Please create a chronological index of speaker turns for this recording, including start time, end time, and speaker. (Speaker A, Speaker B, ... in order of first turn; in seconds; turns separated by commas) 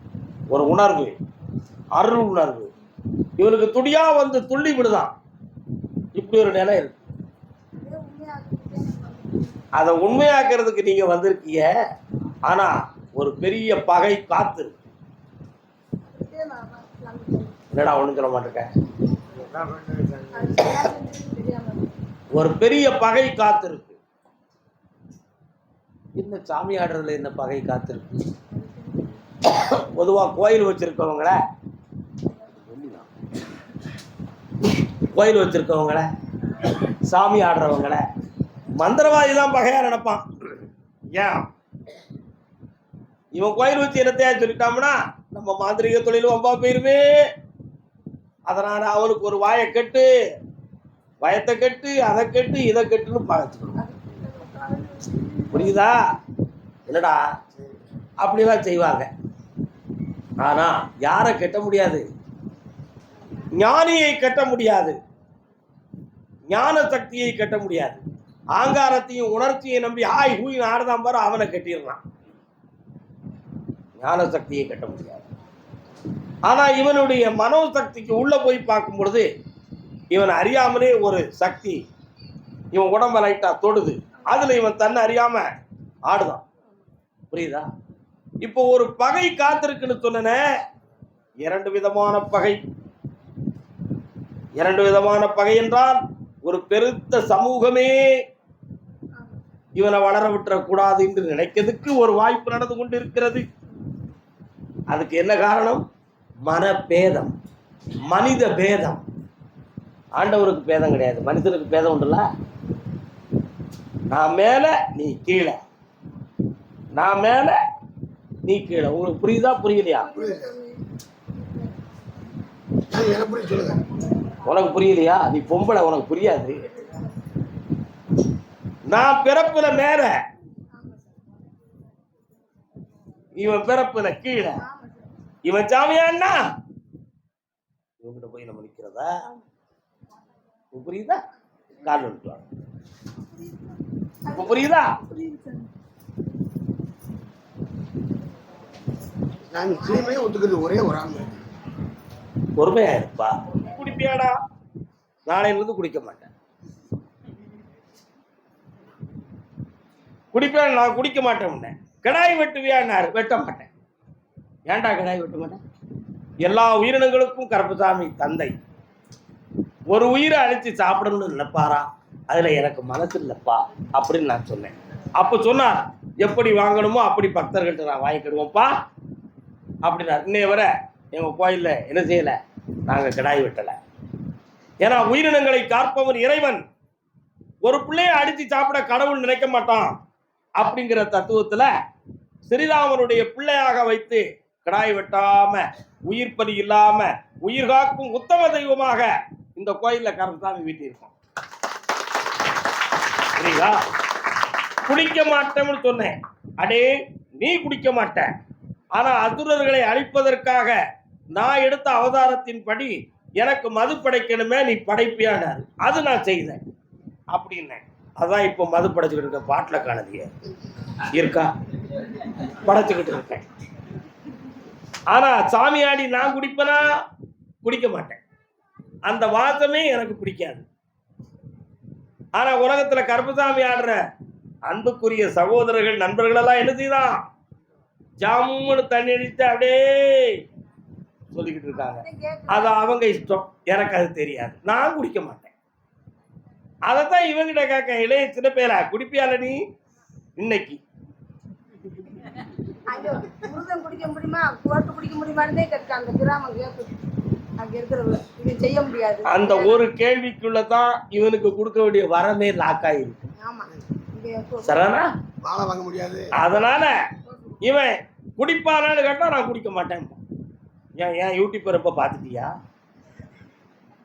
Speaker A: 0.5-1.1, Speaker A: 2.0-2.7, Speaker A: 3.4-5.1, Speaker A: 6.2-7.0, Speaker B: 7.8-9.6, Speaker A: 9.8-11.7, Speaker A: 12.5-14.7, Speaker B: 16.0-17.5, Speaker A: 17.7-18.7, Speaker C: 19.5-20.6, Speaker B: 20.3-21.9, Speaker A: 22.4-24.0, Speaker A: 26.2-28.1, Speaker A: 29.5-31.4, Speaker A: 32.6-33.1, Speaker A: 35.1-36.1, Speaker A: 37.1-38.0, Speaker A: 38.8-40.2, Speaker A: 41.1-41.5, Speaker A: 43.4-47.1, Speaker A: 48.5-50.1, Speaker A: 51.2-53.8, Speaker B: 53.8-55.7, Speaker A: 55.5-56.0, Speaker A: 56.9-57.2, Speaker A: 58.2-59.1, Speaker A: 60.4-62.0, Speaker A: 63.5-65.0, Speaker A: 66.5-68.0, Speaker A: 68.5-72.0, Speaker A: 74.0-75.2, Speaker A: 76.5-79.3, Speaker A: 80.1-81.8, Speaker A: 82.7-85.5, Speaker A: 86.1-86.4, Speaker A: 87.3-87.7, Speaker A: 88.4-90.4, Speaker A: 91.4-92.6, Speaker A: 94.6-98.1, Speaker A: 99.8-103.4, Speaker A: 104.9-105.9, Speaker A: 106.5-107.3, Speaker A: 108.1-109.0, Speaker A: 110.2-112.2, Speaker A: 114.1-115.6, Speaker A: 117.0-117.6, Speaker A: 118.5-120.1, Speaker B: 120.0-120.8, Speaker C: 120.1-120.4, Speaker C: 122.9-123.8, Speaker A: 124.5-126.6, Speaker A: 128.9-130.1, Speaker A: 133.4-134.6, Speaker B: 134.6-135.1, Speaker A: 135.4-136.4, Speaker A: 138.0-139.1, Speaker A: 140.7-141.2, Speaker A: 141.8-142.4, Speaker B: 143.2-145.7, Speaker A: 144.3-144.9, Speaker C: 149.5-151.3, Speaker A: 152.6-154.4, Speaker A: 155.3-156.3, Speaker A: 160.3-163.7, Speaker A: 164.7-165.6, Speaker A: 166.4-168.5, Speaker A: 169.9-178.8, Speaker A: 179.8-183.8, Speaker A: 184.8-186.6, Speaker A: 187.6-189.9, Speaker A: 190.6-191.7, Speaker A: 192.4-201.1, Speaker A: 203.4-203.8, Speaker A: 204.9-208.3, Speaker A: 208.9-210.8, Speaker A: 211.3-216.6, Speaker A: 217.3-220.3, Speaker A: 221.1-221.5, Speaker A: 222.6-223.4, Speaker A: 225.1-226.9, Speaker A: 227.6-228.2, Speaker A: 229.1-230.6, Speaker A: 232.3-234.0, Speaker A: 234.7-237.2, Speaker A: 238.2-240.4, Speaker A: 241.3-245.5, Speaker B: 241.8-243.0, Speaker A: 246.9-249.6, Speaker A: 250.4-250.8, Speaker B: 252.9-256.9, Speaker B: 257.6-259.8, Speaker A: 259.2-263.3, Speaker B: 263.4-264.8, Speaker A: 264.6-265.1, Speaker C: 265.4-266.3, Speaker A: 266.4-266.9, Speaker B: 267.3-267.5, Speaker A: 267.6-270.2, Speaker A: 271.0-272.5